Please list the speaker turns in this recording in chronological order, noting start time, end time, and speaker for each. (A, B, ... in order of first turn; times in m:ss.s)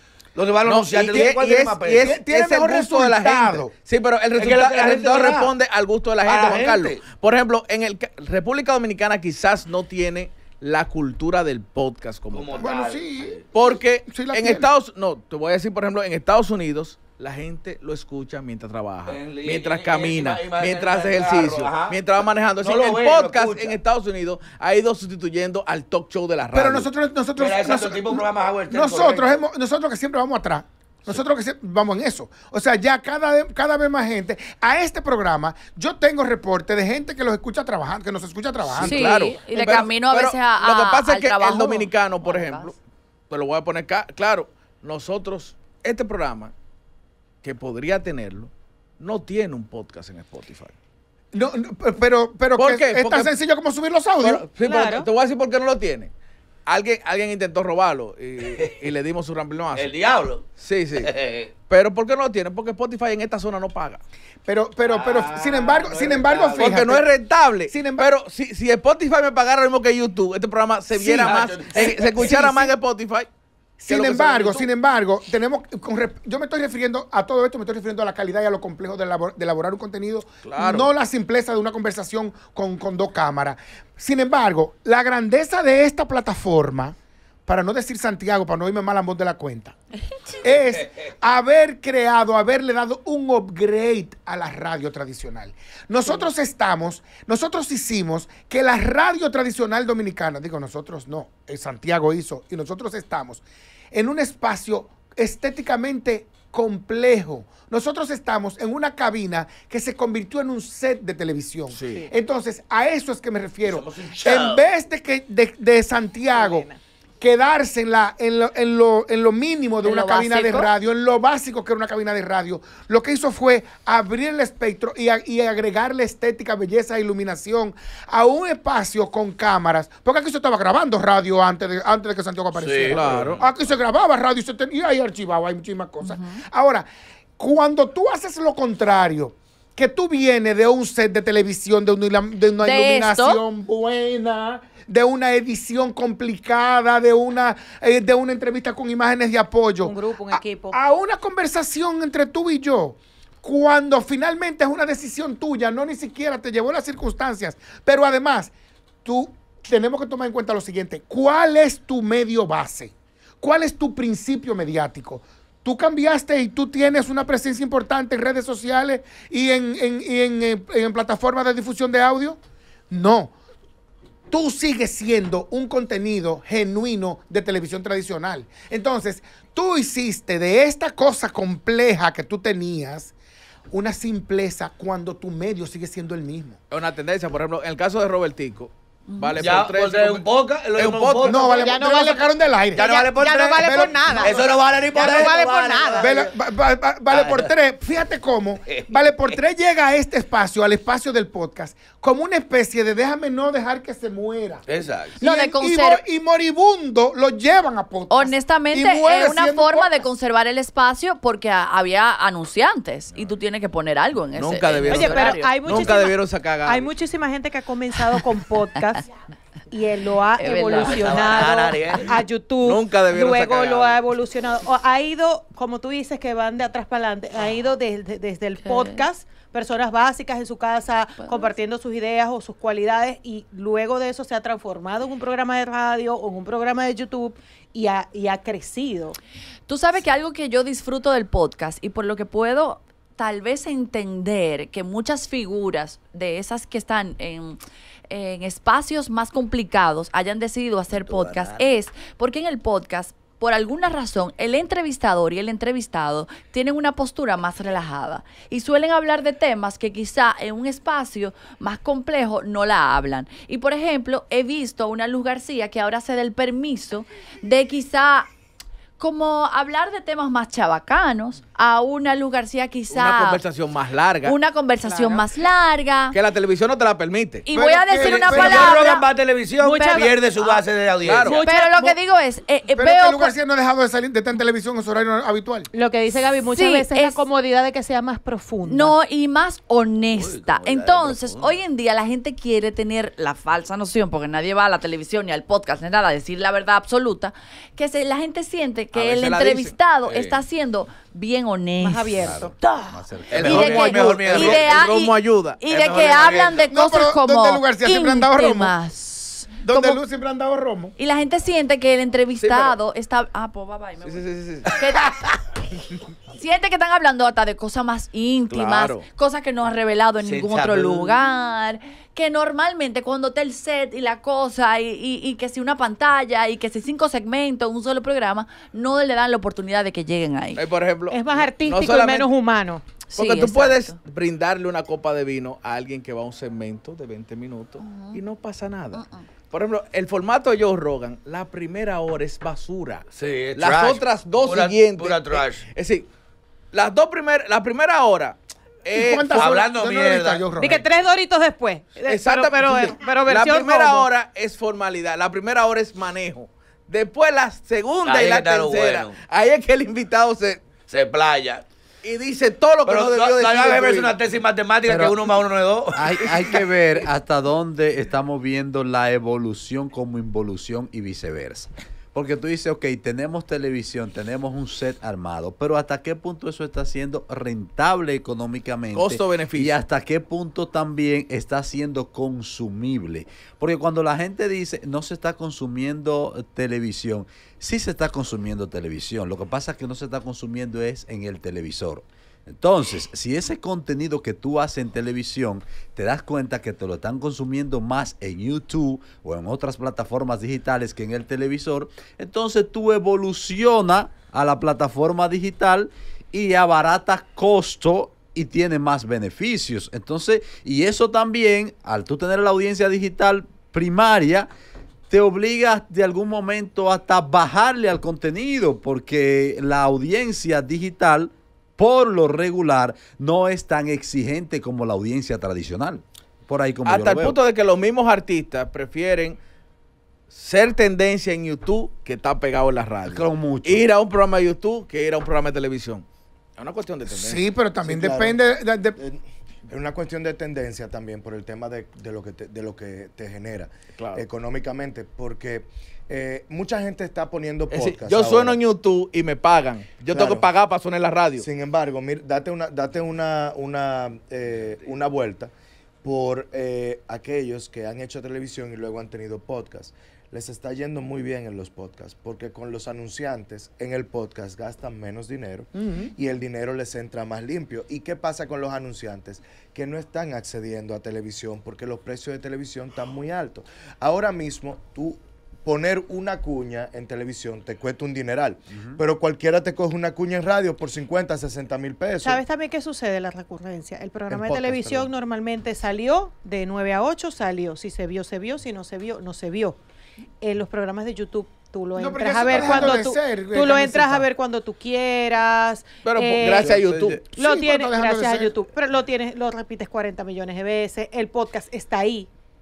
0:00.3-0:02.1 A
0:00.6-0:12.7 B
0:00.9-0:03.7 C
0:04.4-0:05.5 A
0:06.2-0:07.0 A
0:12.3-0:13.4 A
0:12.6-0:14.7 C
0:13.5-0:26.9 B
0:19.1-0:22.0 A
0:22.6-0:23.8 A
0:26.5-0:39.0 C
0:27.4-0:29.4 A
0:38.6-0:42.8 B
0:38.8-0:42.7 D
0:43.3-0:46.5 B
0:47.4-0:50.7 B
0:51.3-0:54.5 C
0:52.6-0:53.3 B
0:54.2-0:56.1 B
0:54.6-0:55.1 E
0:56.6-0:59.9 B
0:59.7-1:00.4 A
1:00.6-1:04.0 B
1:01.0-1:01.5 A
1:04.4-1:07.0 C
1:04.8-1:06.8 A
1:06.6-1:13.3 B
1:07.7-1:08.1 C
1:11.0-1:12.4 A
1:11.2-1:12.7 C
1:13.8-1:29.8 C
1:13.9-1:14.7 B
1:20.4-1:20.9 B
1:30.4-1:56.7 C
1:51.7-1:52.1 B
1:53.6-1:54.6 A
1:56.3-1:56.8 E
1:57.2-2:16.9 C
1:59.8-2:00.7 D
2:12.5-2:13.5 A
2:12.9-2:13.4 B
2:16.0-2:16.4 D
2:17.4-2:38.5 C
2:22.6-2:23.4 D
2:29.8-2:30.8 E
2:39.0-2:53.3 C
2:54.3-3:03.1 C
3:03.7-3:06.6 C
3:06.7-3:11.4 B
3:09.1-3:09.5 D
3:09.4-3:11.8 A
3:11.2-3:13.0 C
3:11.4-3:16.1 E
3:12.7-3:16.3 A
3:13.6-3:14.4 C
3:16.0-3:24.6 C
3:17.1-3:17.5 A
3:24.7-3:25.2 A
3:25.2-3:26.0 D
3:25.2-3:30.0 C
3:28.1-3:35.9 D
3:34.3-3:36.9 B
3:34.8-3:39.1 E
3:39.7-3:59.2 E
3:40.4-3:41.7 D
3:40.7-3:42.1 A
3:42.6-3:44.0 B
3:48.6-3:49.0 D
3:59.7-4:28.3 D
4:10.9-4:11.6 A
4:29.0-4:33.4 D
4:32.9-4:34.4 B
4:34.2-4:36.2 D
4:36.1-4:37.4 B
4:37.4-4:39.0 D
4:37.5-4:38.9 C
4:38.0-4:41.4 A
4:39.6-4:40.6 E
4:39.6-4:40.6 D
4:41.0-4:41.4 B
4:41.2-4:42.0 E
4:41.4-4:43.3 D
4:42.7-4:45.7 C
4:45.7-4:48.9 E
4:46.5-4:47.2 D
4:48.6-5:02.4 D
4:50.1-4:51.6 A
4:58.9-5:00.4 B
5:01.8-5:02.5 E
5:02.2-5:03.9 F
5:03.3-5:04.8 A
5:03.3-5:05.6 B
5:03.4-5:10.0 D
5:05.7-5:06.7 A
5:06.7-5:08.7 C
5:09.6-5:11.0 C
5:11.0-5:15.3 D
5:12.4-5:12.8 B
5:14.0-5:14.7 B
5:16.3-5:30.6 D
5:18.5-5:19.0 B
5:20.2-5:21.2 A
5:30.6-5:32.3 B
5:31.1-5:32.8 E
5:33.0-5:34.0 D
5:33.1-5:46.1 B
5:37.8-5:38.2 D
5:38.9-5:39.2 D
5:43.2-5:45.6 A
5:46.7-5:49.6 B
5:48.9-5:50.8 C
5:49.4-5:50.5 A
5:50.6-5:54.1 E
5:52.0-6:00.6 B
5:58.0-5:59.1 A
6:00.9-6:01.6 A
6:02.0-6:04.1 B
6:02.9-6:06.7 A
6:05.9-6:54.5 F
6:18.9-6:19.8 B
6:55.1-7:07.4 F
7:06.8-7:09.4 B
7:10.3-7:16.0 B
7:13.1-7:13.9 F
7:16.6-7:17.4 B
7:17.1-7:19.0 C
7:17.8-7:18.4 G
7:19.0-7:28.6 G
7:24.0-7:24.2 B
7:27.7-7:31.4 B
7:30.1-7:30.5 G
7:31.4-8:02.4 G
7:45.7-7:46.1 C
8:02.2-8:09.8 E
8:04.3-8:05.1 G
8:10.4-8:16.8 E
8:12.0-8:14.3 C
8:12.5-8:12.9 G
8:16.0-8:17.2 B
8:16.6-8:17.2 F
8:17.4-8:18.5 C
8:17.4-8:22.3 E